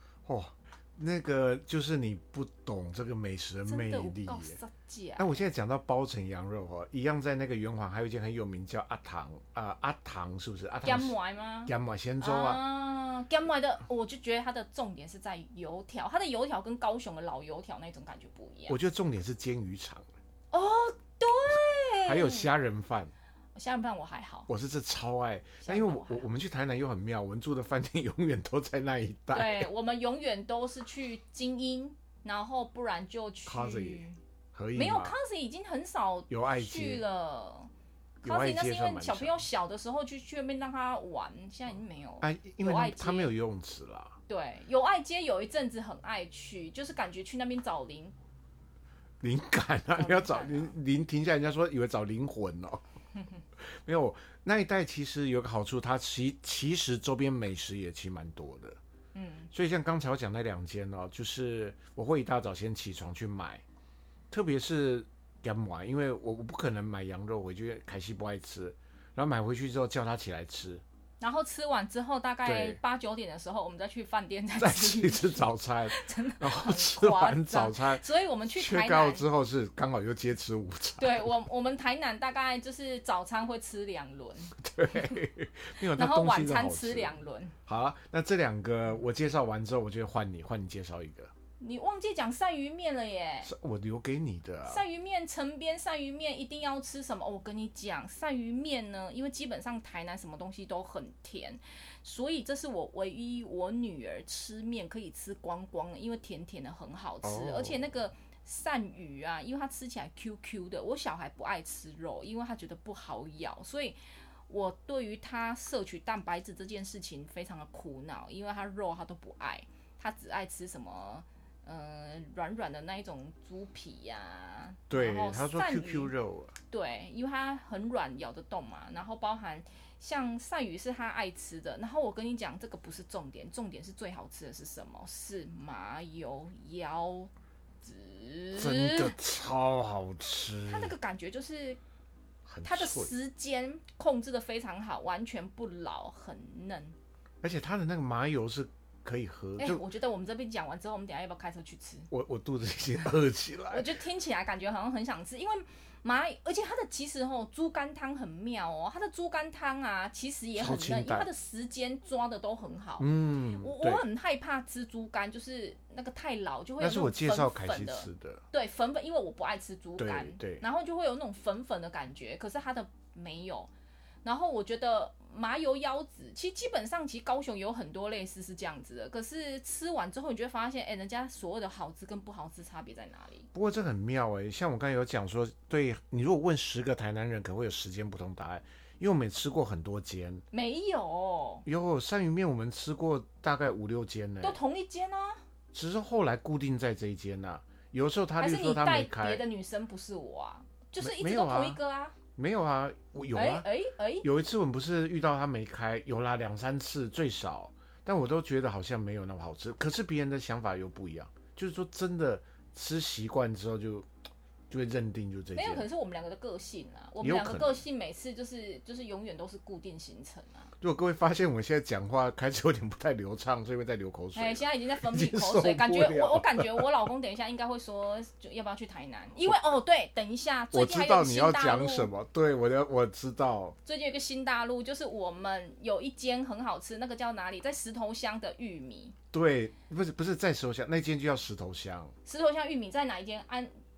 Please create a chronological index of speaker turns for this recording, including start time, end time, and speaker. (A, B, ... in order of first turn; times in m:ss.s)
0:00.3-0:04.6 A
0:03.7-0:05.4 B
0:05.2-0:11.1 A
0:10.8-0:18.8 B
0:11.7-0:12.6 A
0:18.7-0:20.1 A
0:20.5-0:22.5 B
0:22.0-0:23.1 A
0:23.6-0:24.5 B
0:24.5-0:29.7 A
0:25.6-0:26.3 B
0:29.3-0:34.2 B
0:33.5-0:35.2 A
0:34.7-0:37.7 B
0:36.3-0:37.0 A
0:38.2-0:39.4 A
0:38.2-0:43.3 B
0:42.2-0:44.2 A
0:44.3-0:48.2 B
0:49.2-0:52.8 A
0:50.0-0:50.7 B
0:53.6-0:58.8 A
0:59.1-0:59.5 B
0:59.5-1:03.6 A
1:04.3-1:10.8 A
1:11.2-1:19.3 B
1:12.4-1:12.8 A
1:14.6-1:21.3 A
1:21.0-1:25.1 B
1:24.6-1:27.1 A
1:26.0-1:27.6 B
1:27.7-1:31.3 A
1:31.6-1:33.5 B
1:33.4-1:34.8 A
1:34.7-1:54.0 B
1:47.2-1:47.8 A
1:54.5-2:06.1 B
2:04.9-2:06.6 A
2:06.7-2:17.3 B
2:17.8-2:19.2 B
2:18.6-2:20.9 A
2:20.7-2:21.8 B
2:22.5-2:23.1 A
2:22.6-2:27.0 B
2:27.4-2:29.8 A
2:29.6-2:32.1 B
2:32.1-2:33.9 A
2:33.7-2:43.1 B
2:40.6-2:41.3 A
2:43.0-2:44.0 A
2:43.6-2:53.7 B
2:46.8-2:48.4 A
2:50.0-2:50.6 A
2:54.2-3:03.5 B
3:03.5-3:10.4 A
3:10.5-3:11.7 B
3:11.7-3:14.6 A
3:14.4-3:15.4 B
3:15.7-3:19.4 A
3:18.4-3:22.2 B
3:21.0-3:21.8 A
3:22.4-3:23.7 A
3:23.3-3:24.3 B
3:24.2-3:34.1 A
3:34.7-3:35.9 A
3:35.6-3:40.7 B
3:37.2-3:37.8 A
3:40.8-3:46.9 A
3:44.4-3:52.1 B
3:50.7-3:53.8 A
3:53.8-3:59.2 B
3:59.3-4:02.1 A
4:02.3-4:03.7 B